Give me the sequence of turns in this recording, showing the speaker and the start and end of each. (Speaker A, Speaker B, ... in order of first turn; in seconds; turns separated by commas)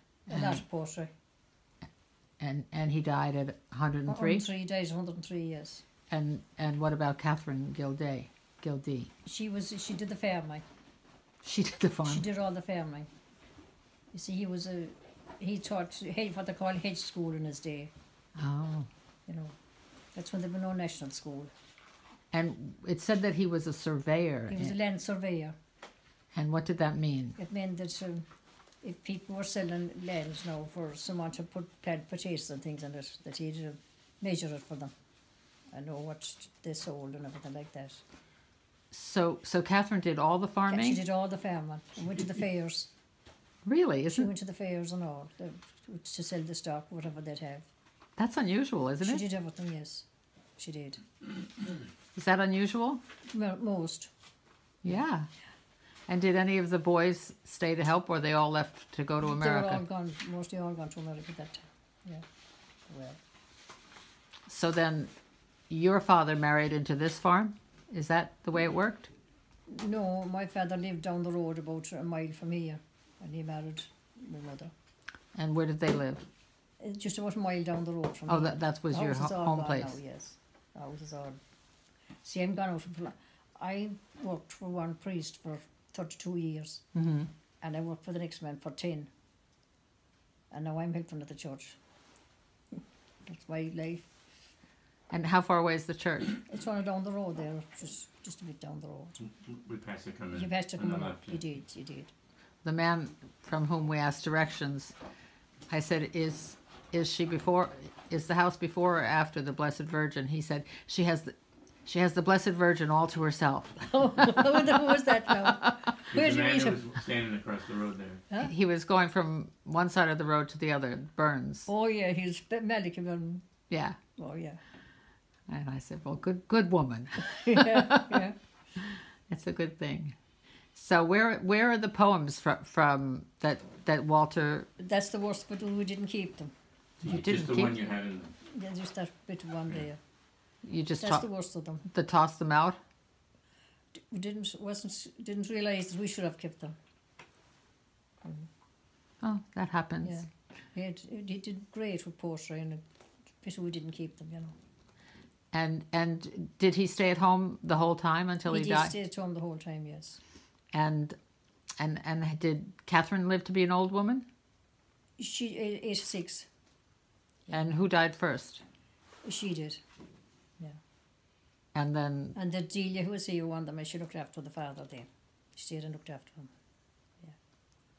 Speaker A: 0.3-0.6, Speaker B: 0.3-1.1, Speaker A: 2.4-4.4, Speaker B: 4.1-5.8, Speaker A: 6.1-9.1, Speaker B: 9.2-10.6, Speaker A: 11.4-12.2, Speaker B: 12.0-13.1, Speaker B: 14.1-17.9, Speaker A: 18.4-18.9, Speaker B: 19.3-19.5, Speaker B: 20.1-21.5, Speaker A: 22.3-24.7, Speaker B: 24.5-25.5, Speaker A: 26.3-27.4, Speaker B: 27.4-28.3, Speaker B: 28.8-34.9, Speaker B: 35.7-38.0, Speaker A: 38.9-41.0, Speaker B: 40.7-42.9, Speaker A: 43.6-44.3, Speaker B: 44.1-47.7, Speaker A: 48.2-49.2, Speaker B: 49.0-50.0, Speaker B: 50.6-51.0, Speaker A: 52.1-53.0, Speaker B: 53.3-54.1, Speaker A: 54.8-55.3, Speaker A: 56.1-59.8, Speaker B: 59.2-62.2, Speaker B: 62.9-63.2, Speaker A: 64.5-65.1, Speaker A: 65.7-69.1, Speaker B: 69.7-74.7, Speaker A: 75.3-76.2, Speaker B: 76.8-81.4, Speaker A: 78.3-80.0, Speaker B: 82.2-86.8, Speaker A: 86.9-87.3, Speaker B: 87.6-89.1, Speaker B: 90.5-91.8, Speaker B: 92.7-94.1, Speaker A: 95.1-96.4, Speaker B: 96.5-99.2, Speaker C: 99.2-101.5, Speaker B: 100.3-102.1, Speaker A: 102.6-104.9, Speaker A: 105.7-111.3, Speaker A: 111.8-115.0, Speaker B: 113.9-116.9, Speaker C: 116.1-118.2, Speaker A: 118.4-121.7, Speaker B: 121.7-123.4, Speaker A: 123.7-124.0, Speaker B: 124.2-124.6, Speaker A: 125.5-128.2, Speaker B: 127.2-128.4, Speaker A: 128.8-130.2, Speaker A: 130.7-134.7, Speaker B: 134.8-136.5, Speaker C: 137.0-138.3, Speaker A: 137.0-137.8, Speaker B: 138.4-140.0, Speaker A: 140.6-141.3, Speaker B: 141.0-141.8, Speaker A: 141.8-142.8, Speaker B: 144.1-146.7, Speaker B: 148.2-148.5, Speaker A: 149.2-150.2, Speaker B: 150.0-152.8, Speaker B: 153.4-154.5, Speaker A: 155.5-158.9, Speaker B: 158.4-160.2, Speaker A: 160.7-161.2, Speaker A: 161.8-164.2, Speaker B: 165.2-166.5, Speaker A: 167.5-168.6, Speaker B: 169.2-169.8, Speaker A: 171.7-172.3, Speaker B: 172.3-176.5